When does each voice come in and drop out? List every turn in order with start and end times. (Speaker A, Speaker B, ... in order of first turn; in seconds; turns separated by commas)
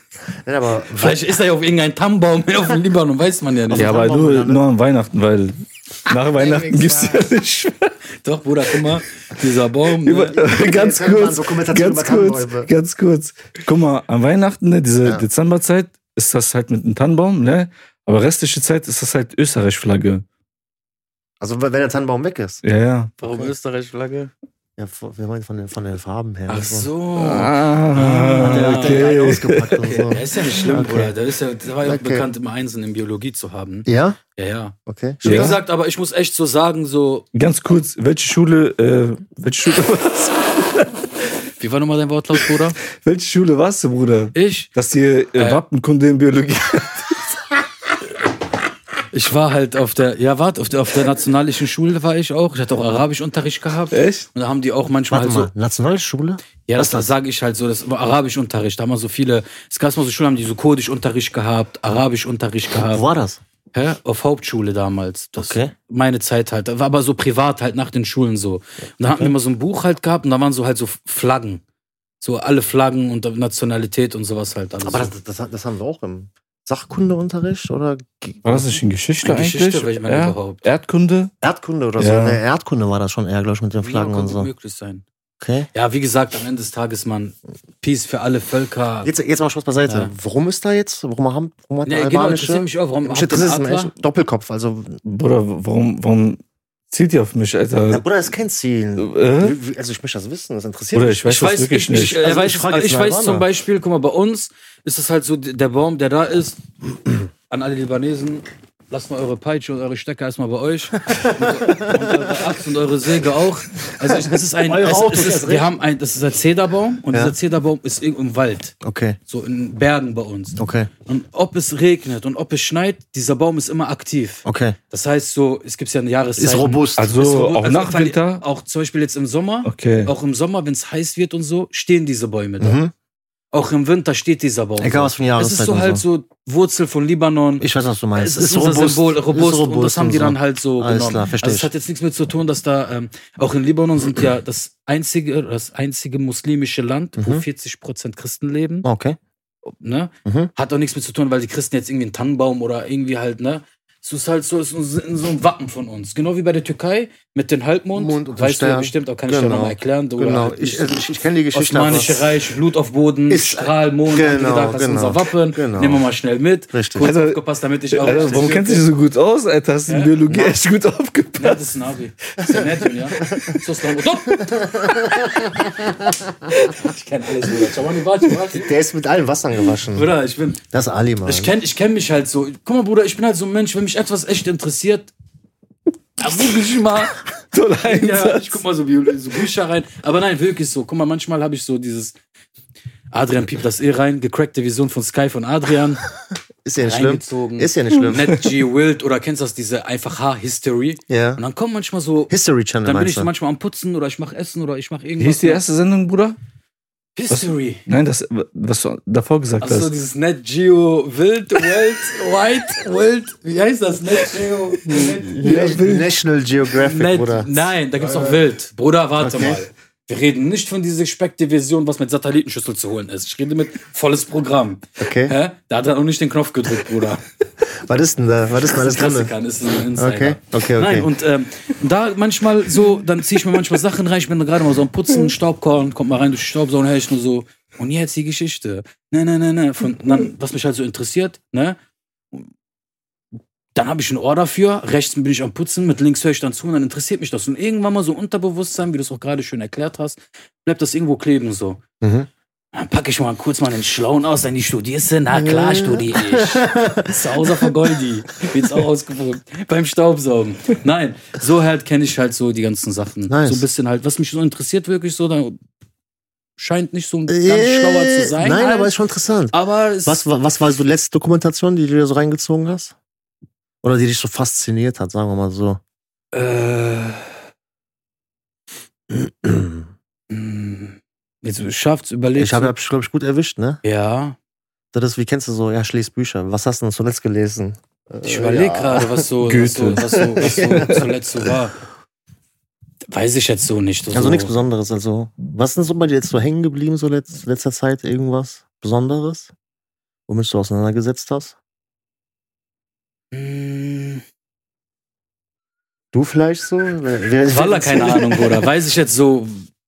Speaker A: 0.4-1.2, Speaker B: 0.9-4.0, Speaker A: 3.7-4.6, Speaker C: 3.8-7.9, Speaker A: 6.4-7.2, Speaker B: 8.2-10.4, Speaker C: 10.0-20.2, Speaker A: 10.3-12.7, Speaker A: 21.4-22.6, Speaker C: 22.6-23.1, Speaker B: 23.2-24.3, Speaker A: 24.8-26.9, Speaker B: 26.5-29.1, Speaker C: 27.1-30.0, Speaker A: 28.4-31.2, Speaker B: 29.8-37.3, Speaker A: 31.8-32.3, Speaker A: 33.9-34.2, Speaker A: 34.9-35.6, Speaker C: 35.2-35.6, Speaker C: 37.3-41.1, Speaker B: 41.6-42.8, Speaker C: 42.9-47.2, Speaker B: 44.3-44.7, Speaker B: 45.4-45.6, Speaker B: 49.1-55.5, Speaker C: 53.9-54.3, Speaker A: 55.1-57.1, Speaker B: 56.7-63.0, Speaker A: 62.8-63.4, Speaker B: 63.7-71.6, Speaker A: 65.4-65.7, Speaker B: 72.2-75.1, Speaker A: 74.8-78.8, Speaker C: 78.5-81.3, Speaker B: 79.2-80.6, Speaker A: 81.4-84.5, Speaker C: 82.0-82.4, Speaker B: 83.8-85.0, Speaker A: 85.4-85.7, Speaker B: 85.7-89.1, Speaker A: 89.0-95.0, Speaker B: 91.8-93.9, Speaker C: 95.0-96.4, Speaker C: 96.9-98.0, Speaker A: 97.9-103.5, Speaker C: 99.0-99.6, Speaker C: 100.9-102.2, Speaker B: 101.2-106.6, Speaker B: 107.5-118.8, Speaker A: 111.7-112.1, Speaker A: 114.3-115.7, Speaker A: 118.8-119.2, Speaker B: 119.3-132.8, Speaker A: 120.6-120.9, Speaker A: 124.5-124.8, Speaker A: 126.4-127.2, Speaker C: 127.0-128.4, Speaker C: 129.7-130.1, Speaker A: 132.6-132.9, Speaker B: 133.5-148.8, Speaker A: 134.8-136.0, Speaker A: 137.6-141.7, Speaker A: 147.2-147.4, Speaker A: 148.8-149.2, Speaker B: 149.7-161.0, Speaker A: 150.2-150.5, Speaker A: 157.9-162.4, Speaker B: 161.5-168.8, Speaker A: 163.3-166.0, Speaker A: 166.7-167.1, Speaker C: 167.0-171.6, Speaker A: 168.1-168.6, Speaker B: 169.9-170.1, Speaker A: 170.3-170.6, Speaker B: 171.4-174.6, Speaker A: 173.2-173.6, Speaker A: 174.4-176.5, Speaker B: 176.5-178.7, Speaker A: 178.5-180.1, Speaker B: 179.9-180.6, Speaker A: 180.7-181.5, Speaker B: 181.2-185.1, Speaker B: 186.2-187.2, Speaker C: 187.5-188.6, Speaker B: 187.8-192.2, Speaker B: 193.1-196.0, Speaker A: 196.7-198.4, Speaker B: 196.8-205.6, Speaker C: 198.1-198.4, Speaker A: 201.1-201.4, Speaker A: 202.3-203.3, Speaker C: 205.2-206.4, Speaker B: 207.2-207.8, Speaker C: 207.3-209.9, Speaker B: 209.6-215.3, Speaker C: 214.9-216.1, Speaker A: 214.9-217.7, Speaker B: 216.8-227.2, Speaker A: 219.2-219.6, Speaker A: 225.0-225.3, Speaker A: 227.6-229.3, Speaker B: 228.7-241.8, Speaker A: 230.0-231.1, Speaker B: 243.8-251.8, Speaker A: 252.0-252.3, Speaker B: 252.7-265.6, Speaker A: 255.3-257.7, Speaker A: 263.3-263.7, Speaker B: 266.6-268.9, Speaker A: 267.3-272.9, Speaker B: 269.5-270.2, Speaker A: 273.8-275.8, Speaker B: 276.3-277.3, Speaker A: 279.1-279.9, Speaker B: 280.3-282.8, Speaker A: 282.4-283.8, Speaker B: 283.8-284.4, Speaker A: 284.9-289.3, Speaker B: 288.2-291.8, Speaker C: 289.4-291.0, Speaker A: 290.1-291.1, Speaker B: 293.1-294.5, Speaker A: 294.1-299.5, Speaker A: 300.3-301.6, Speaker B: 303.3-304.2, Speaker A: 306.1-308.7, Speaker B: 307.5-309.7